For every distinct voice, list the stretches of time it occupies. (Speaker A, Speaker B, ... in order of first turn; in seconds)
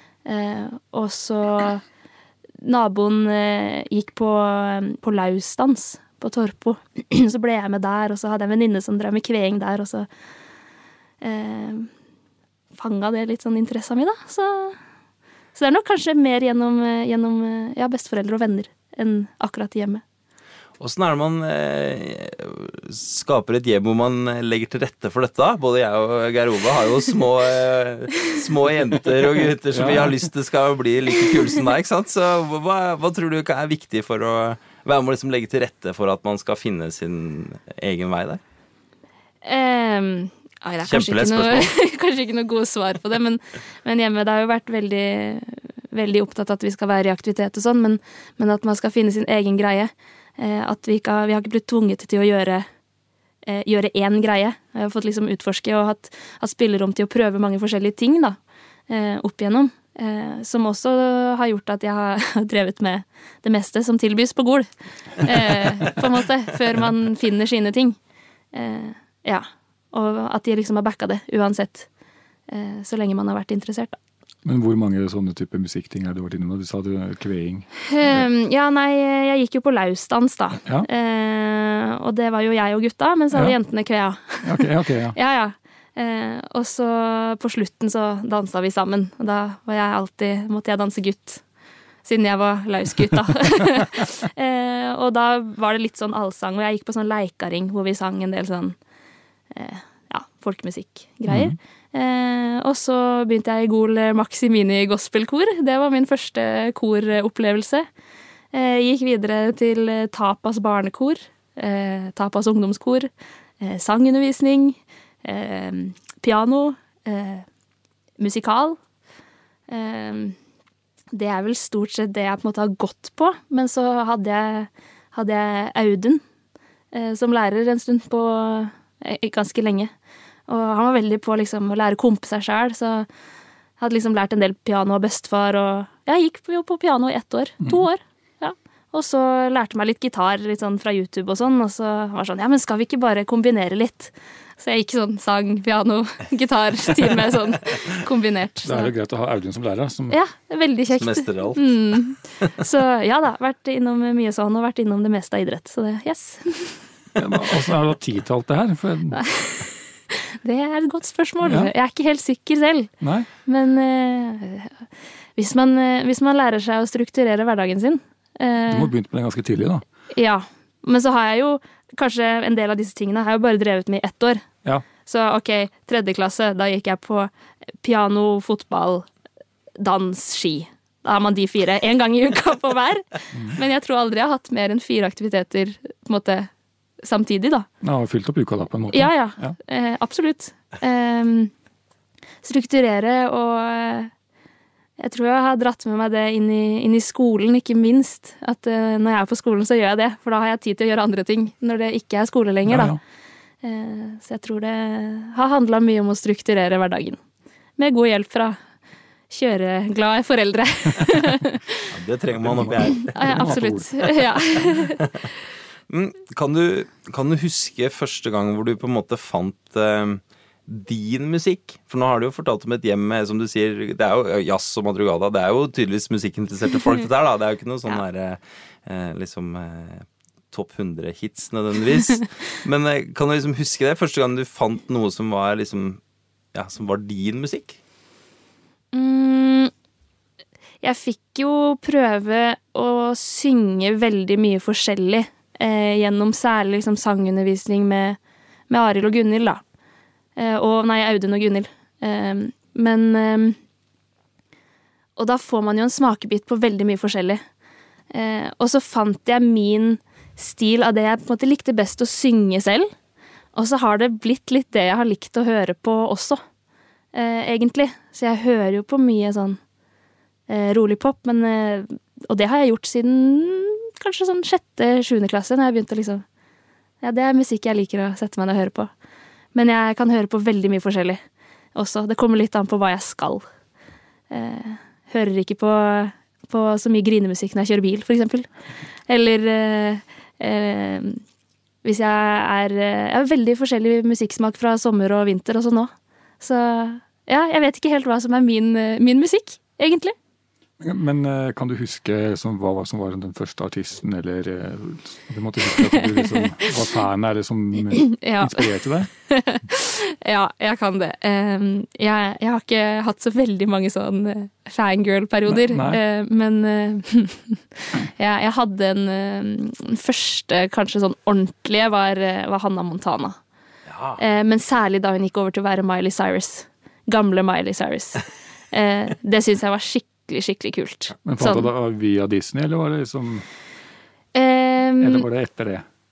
Speaker A: 0.3-1.8, 2.6-10.1, 11.2-11.9, 12.8-14.8, 15.6-20.0, 39.4-52.7, 53.5-68.0, 68.5-71.9, 72.5-74.0, 77.9-91.4, 92.0-98.8, 99.5-107.9, 108.5-117.5, 118.2-118.8, 119.7-120.4, 121.1-126.2, 126.9-129.9, 130.5-133.1, 133.8-148.9, 150.1-156.9, 159.1-162.9, 163.4-164.8, 165.4-168.9, 170.1-174.5, 175.1-177.3, 177.8-179.1, 179.8-186.5, 187.0-187.7, 188.9-191.5, 192.4-194.1, 195.0-203.0, 203.6-207.2, 207.8-208.6, 209.3-211.9, 213.1-215.0, 238.9-239.7, 240.8-249.6, 250.4-253.6, 255.2-257.4, 258.1-262.9, 263.5-266.4, 267.1-269.6, 270.5-276.2, 277.0-278.9, 279.5-281.2, 281.8-283.4, 284.3-288.5, 289.1-291.2, 291.8-300.1, 305.9-306.7, 307.9-323.4, 324.2-331.7, 334.3-335.2
Speaker B: 20.8-38.4, 40.9-41.7, 151.0-152.5, 211.9-213.6, 215.0-215.3, 215.9-236.0, 236.5-237.8, 323.9-324.2
Speaker C: 29.7-30.2, 74.5-78.3, 84.4-85.2, 101.3-101.6, 148.6-150.2, 157.2-159.2, 161.4-161.7, 163.0-163.3, 168.7-169.8, 183.3-183.6, 187.8-189.6, 202.7-203.0, 212.4-214.1, 300.8-309.1, 315.5-316.0, 331.2-333.4, 335.0-335.8